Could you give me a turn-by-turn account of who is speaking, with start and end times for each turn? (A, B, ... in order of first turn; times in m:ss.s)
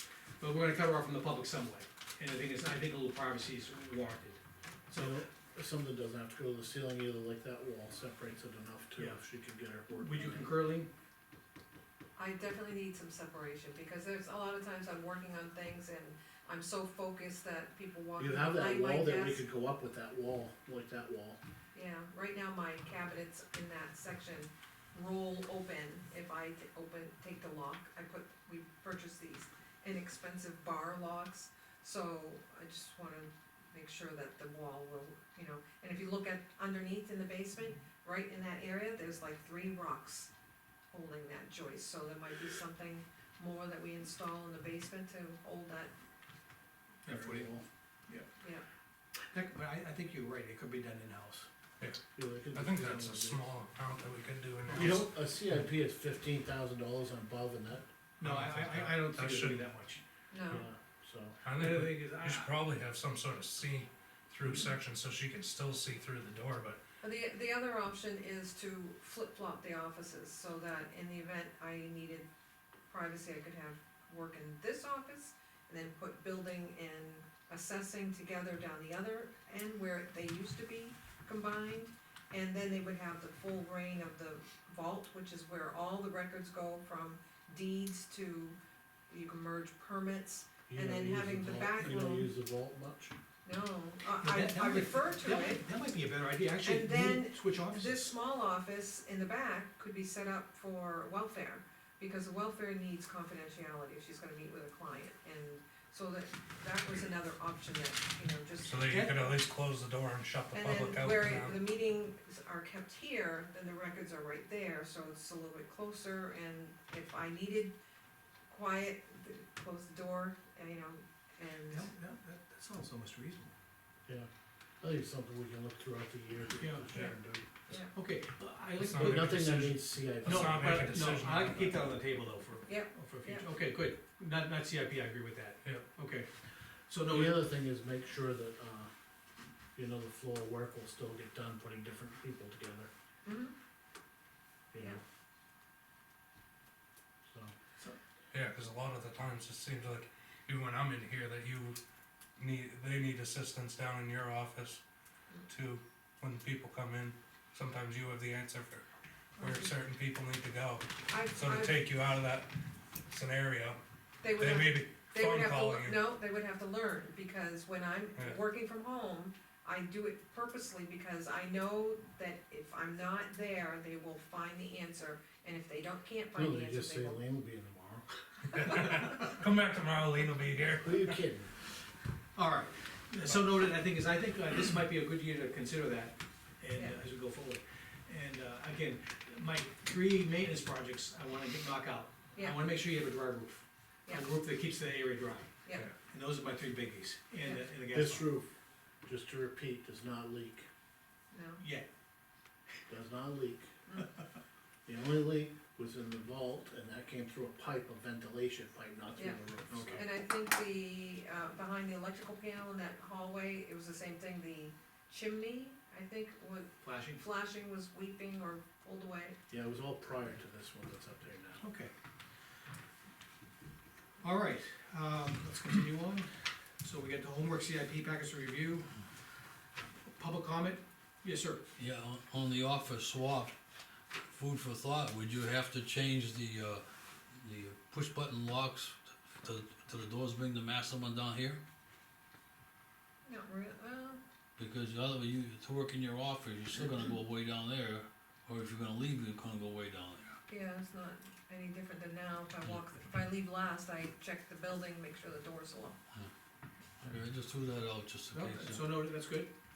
0:00.4-0:05.2 A
0:04.9-0:10.5 B
0:09.9-0:10.9 A
0:12.2-0:19.4 C
0:18.2-0:21.4 B
0:21.7-0:40.3 C
0:40.9-0:45.9 C
0:47.0-0:47.5 A
0:47.0-0:47.6 B
0:49.3-0:51.5 A
0:51.8-0:55.2 D
0:52.1-0:53.4 B
0:54.7-0:57.9 B
0:58.2-1:00.0 A
0:58.2-0:59.7 D
1:00.3-1:00.7 C
1:00.5-1:01.4 B
1:01.4-1:06.8 D
1:01.5-1:02.5 A
1:07.0-1:12.3 C
1:12.9-1:28.6 C
1:29.1-1:32.3 C
1:30.7-1:33.1 B
1:33.4-1:35.6 C
1:34.2-1:38.1 A
1:36.6-1:49.0 C
1:48.6-1:51.6 D
1:48.8-1:49.3 A
1:50.5-1:57.8 C
1:58.5-2:01.9 C
2:01.7-2:03.5 A
2:04.8-2:07.8 B
2:06.6-2:06.9 A
2:07.9-2:09.5 A
2:08.8-2:12.0 D
2:08.9-2:11.0 B
2:10.2-2:16.3 A
2:12.6-2:13.5 C
2:16.9-2:17.5 A
2:17.1-2:18.9 B
2:19.7-2:22.9 B
2:23.2-2:23.5 C
2:24.7-2:25.0 B
2:27.3-2:27.5 B
2:28.3-2:31.8 D
2:32.4-2:34.8 D
2:35.5-2:38.8 D
2:39.4-2:43.8 D
2:39.4-2:39.7 C
2:41.1-2:41.8 C
2:44.2-2:57.2 C
2:44.3-2:46.0 D
2:56.3-2:58.0 B
2:58.5-3:01.2 D
3:00.8-3:01.5 B
3:02.4-3:15.5 A
3:06.7-3:07.0 C
3:12.3-3:12.6 C
3:16.1-3:18.3 A
3:17.4-3:17.7 C
3:17.8-3:18.5 B
3:19.0-3:20.6 B
3:21.3-3:21.6 C
3:21.6-3:21.8 A
3:22.9-3:23.8 B
3:24.8-3:30.1 B
3:29.1-3:29.4 C
3:29.7-3:30.0 A
3:29.9-3:39.4 C
3:36.8-3:37.2 A
3:39.5-3:41.6 B
3:41.6-3:41.9 A
3:44.2-3:48.9 A
3:50.2-3:51.7 A
3:51.8-3:53.5 E
3:54.1-4:01.6 E
4:03.2-4:04.2 C
4:04.6-4:10.4 E
4:10.5-4:16.0 C
4:17.0-4:18.8 E
4:18.3-4:19.5 A